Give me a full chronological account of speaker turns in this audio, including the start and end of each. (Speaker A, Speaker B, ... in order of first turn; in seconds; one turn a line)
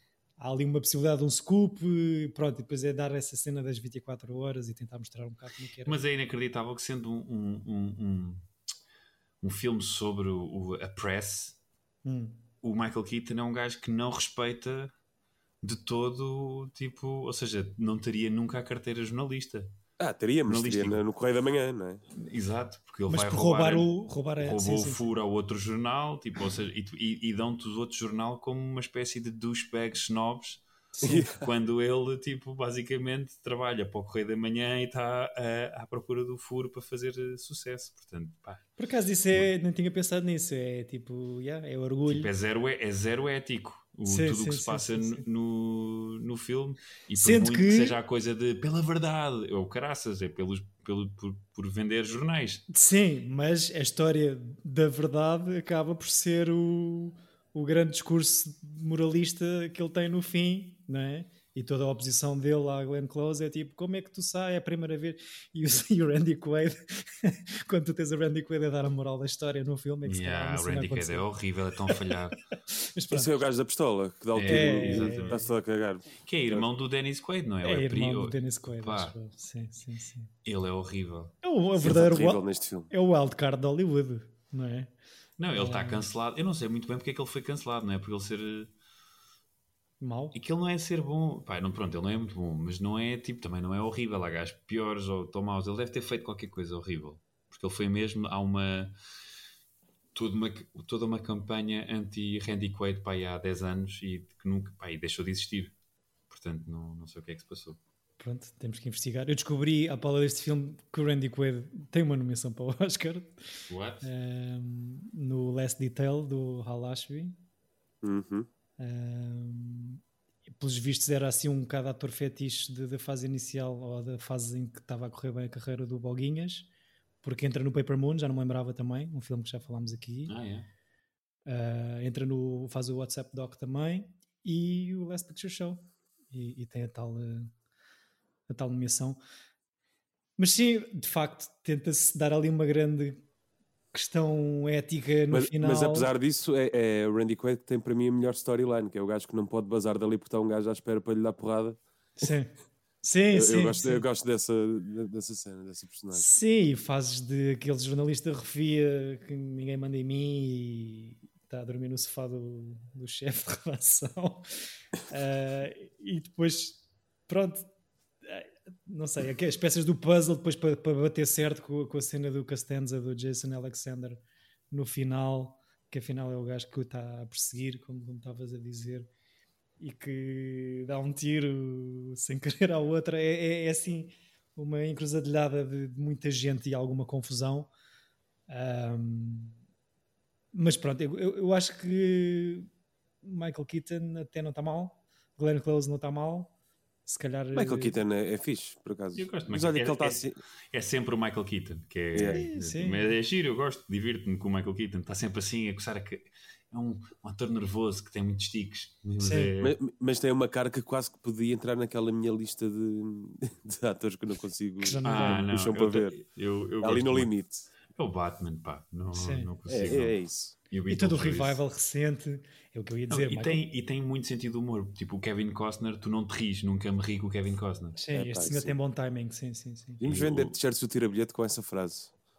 Speaker A: 0.4-6.0
Speaker B: 5.9-8.4
Speaker B: 9.4-11.6
Speaker A: 12.1-12.4
Speaker B: 12.6-14.9
Speaker B: 15.6-19.7
Speaker C: 20.0-22.0
Speaker B: 20.5-21.0
Speaker B: 22.2-38.7
Speaker A: 23.1-25.1
Speaker A: 31.0-31.2
Speaker C: 31.0-31.4
Speaker A: 38.8-42.3
Speaker B: 42.1-52.6
Speaker A: 44.1-45.2
Speaker A: 47.2-48.0
Speaker A: 52.7-71.3
Speaker B: 70.0-72.5
Speaker A: 72.7-73.4
Speaker C: 73.1-76.7
Speaker B: 74.3-75.5
Speaker A: 74.4-75.4
Speaker B: 76.2-79.1
Speaker A: 77.6-80.3
Speaker B: 80.5-81.3
Speaker A: 81.4-84.9
Speaker C: 81.8-82.9
Speaker B: 85.4-88.7
Speaker A: 85.5-86.1
Speaker A: 90.0-90.4
Speaker B: 90.3-99.0
Speaker B: 100.2-105.7
Speaker B: 106.3-107.8
Speaker A: 108.2-113.5
Speaker B: 113.7-114.1
Speaker A: 114.0-117.4
Speaker C: 118.0-118.5
Speaker A: 118.8-120.0
Speaker A: 120.6-126.7
Speaker A: 127.2-130.3
Speaker B: 130.3-130.7
Speaker A: 131.5-137.5
Speaker A: 138.5-139.2
Speaker A: 140.4-143.2
Speaker A: 143.9-146.1
Speaker C: 145.3-151.8
Speaker A: 152.2-154.0
Speaker C: 153.3-156.3
Speaker A: 156.1-164.5
Speaker A: 165.1-167.7
Speaker A: 168.2-174.2
Speaker A: 174.7-179.1
Speaker A: 179.8-187.7
Speaker A: 188.5-189.6
Speaker A: 190.5-192.7
Speaker A: 193.2-196.5
Speaker A: 197.1-198.0
Speaker C: 197.5-200.4
Speaker B: 199.2-209.8
Speaker C: 202.1-202.4
Speaker A: 202.4-203.1
Speaker A: 209.2-209.5
Speaker C: 209.6-216.2
Speaker A: 214.8-215.5
Speaker B: 215.1-217.3
Speaker C: 216.8-217.7
Speaker B: 217.9-221.6
Speaker A: 219.1-219.5
Speaker C: 219.7-220.5
Speaker A: 220.9-223.6
Speaker B: 223.1-228.0
Speaker A: 228.0-230.0
Speaker C: 228.1-228.8
Speaker C: 230.0-232.1
Speaker B: 230.0-230.6